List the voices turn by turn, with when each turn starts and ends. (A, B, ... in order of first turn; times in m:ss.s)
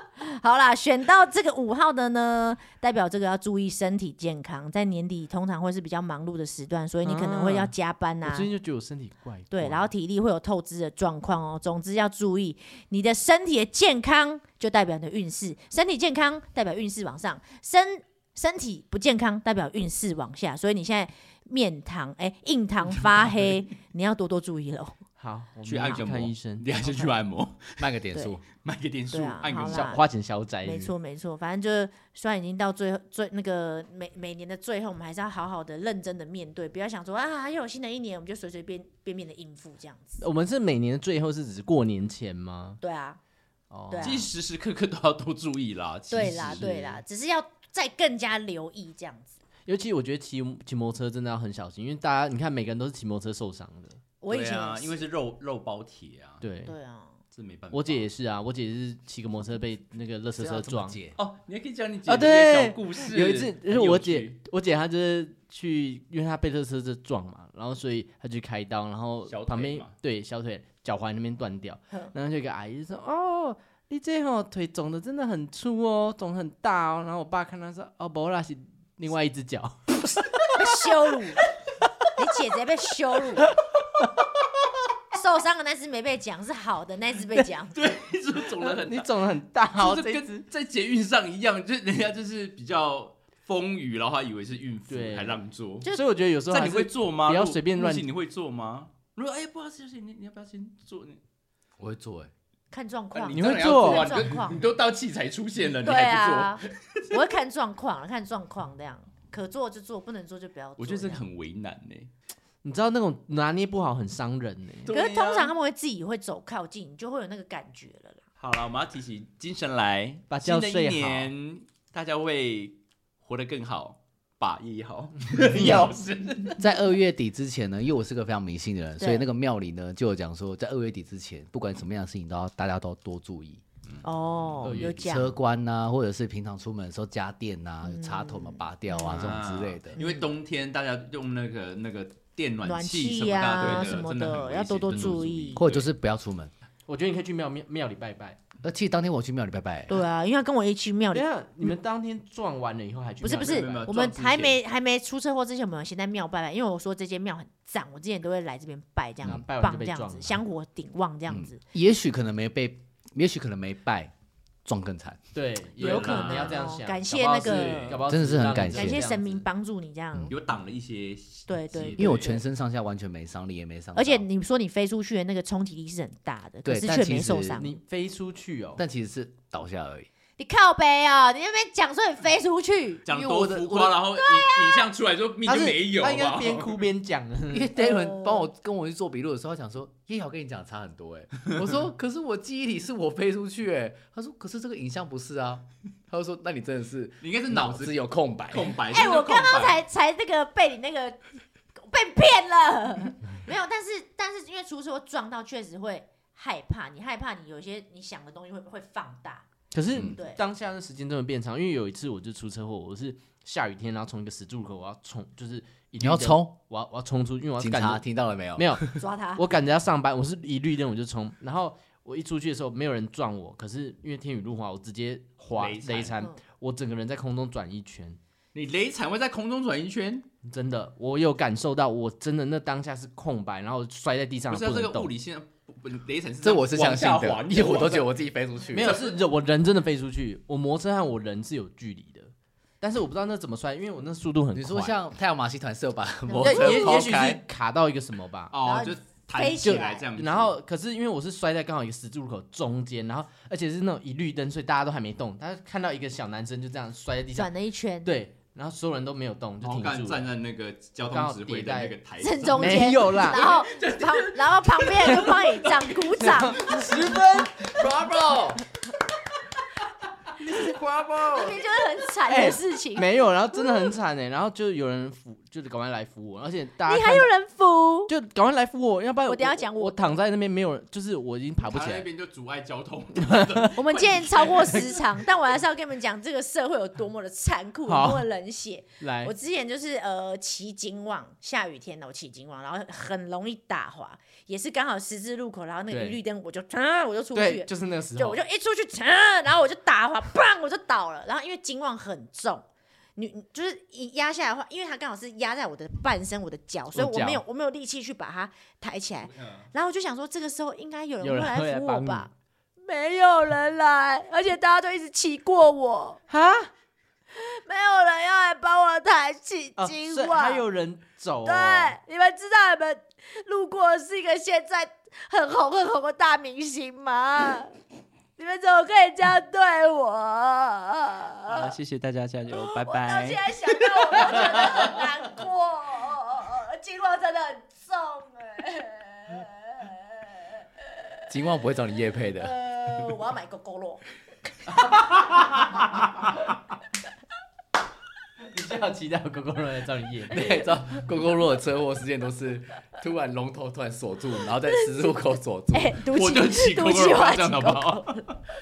0:00.2-0:08.5 A
0:07.0-0:09.9 B
0:09.5-0:25.0 A
0:25.2-0:27.1 B
0:25.7-0:27.9 C
0:27.8-0:28.4 D
0:28.6-0:30.0 C
0:29.1-0:30.0 A
0:29.6-0:30.9 B
0:30.6-0:40.2 A
0:40.2-0:42.8 B
0:42.8-0:43.2 A
0:43.7-0:44.3 B
0:43.9-0:44.3 A
0:44.0-0:46.7 C
0:46.1-0:49.4 A
0:46.5-0:47.0 B
0:49.7-0:54.0 B
0:54.2-0:55.1 A
0:54.3-0:56.4 C
0:56.4-0:56.8 B
0:56.7-0:57.2 A
0:57.3-0:58.1 C
0:57.7-1:01.0 B
1:00.4-1:01.2 D
1:01.2-1:04.4 C
1:02.1-1:20.9 B
1:09.3-1:09.9 C
1:20.5-1:21.4 A
1:22.2-1:23.5 A
1:25.1-1:27.8 A
1:27.7-1:29.1 C
1:28.5-1:30.4 B
1:29.8-1:35.9 C
1:34.9-1:38.1 B
1:36.5-1:41.2 C
1:41.8-1:42.3 D
1:42.7-1:44.6 A
1:43.1-1:47.2 C
1:43.3-1:44.3 B
1:45.8-1:51.2 A
1:50.8-1:52.1 C
1:52.6-1:54.9 B
1:54.8-1:55.5 C
1:54.9-1:58.2 A
1:58.4-2:06.6 C
2:00.3-2:01.3 B
2:05.6-2:05.9 D
2:06.6-2:13.6 D
2:09.0-2:09.3 A
2:14.0-2:15.4 A
2:14.6-2:15.2 B
2:14.8-2:20.0 D
2:17.8-2:19.3 A
2:19.1-2:25.9 C
2:20.0-2:20.3 A
2:22.6-2:25.6 A
2:25.6-2:26.5 D
2:26.9-2:28.4 B
2:28.6-2:30.0 D
2:29.9-2:31.2 A
2:31.1-2:34.0 B
2:33.2-2:41.6 A
2:33.4-2:34.6 C
2:39.2-2:40.4 B
2:41.3-2:44.1 D
2:44.6-2:45.3 D
2:45.3-2:49.5 B
2:45.8-2:48.1 A
2:45.8-2:46.2 C
2:45.8-2:46.2 D
2:47.9-2:49.0 D
2:48.7-2:50.3 A
2:50.3-2:52.3 C
2:51.5-2:52.4 A
2:51.7-2:52.2 B
2:52.0-2:54.3 D
2:53.9-2:57.8 A
2:56.6-2:57.6 D
2:57.6-2:58.8 B
2:58.8-3:00.1 D
3:00.4-3:04.9 A
3:03.1-3:06.8 C
3:03.2-3:04.0 D
3:05.4-3:07.7 B
3:07.5-3:18.8 D
3:07.8-3:08.5 A
3:17.2-3:19.8 C
3:18.9-3:29.5 A
3:29.7-3:38.0 B
3:30.1-3:30.4 A
3:36.0-3:36.5 D
3:37.6-3:38.8 D
3:38.6-3:48.2 B
3:39.0-3:39.4 A
3:45.5-3:46.2 C
3:48.5-3:50.3 C
3:50.4-3:55.1 B
3:54.5-3:58.1 C
3:56.4-3:59.0 D
3:58.7-4:05.0 B
3:58.8-3:59.2 C
4:04.5-4:07.4 D
4:06.3-4:07.1 A
4:06.4-4:08.5 B
4:08.5-4:10.6 C
4:08.6-4:10.1 A
4:09.6-4:17.5 B
4:17.3-4:18.1 A
4:18.0-4:20.3 B
4:19.6-4:27.2 C
4:21.1-4:22.0 B
4:22.2-4:26.9 A
4:22.5-4:23.4 B
4:25.1-4:25.4 B
4:26.2-4:27.7 B
4:27.6-4:28.6 D
4:30.4-4:31.6 B
4:31.2-4:33.8 A
4:32.3-4:37.3 B
4:36.9-4:38.1 A
4:38.1-4:42.1 B
4:39.3-4:40.1 A
4:41.6-4:45.0 C
4:43.2-4:43.7 B
4:43.8-5:02.6 A
4:47.9-4:48.3 B
4:49.0-4:49.3 B
4:55.9-4:56.2 B
4:57.3-4:58.4 B
5:03.2-5:16.2 A
5:06.9-5:07.4 B
5:09.2-5:09.7 C
5:11.2-5:12.3 B
5:16.3-5:16.7 B
5:17.4-5:20.7 A
5:19.8-5:22.0 B
5:21.4-5:27.8 A
5:28.4-5:31.7 A
5:31.5-5:35.0 C
5:32.6-5:40.3 A
5:41.3-5:42.5 D
5:42.4-5:44.0 A
5:48.4-5:50.6 B
5:50.3-5:56.0 D
5:55.7-5:58.2 A
5:56.1-5:58.4 C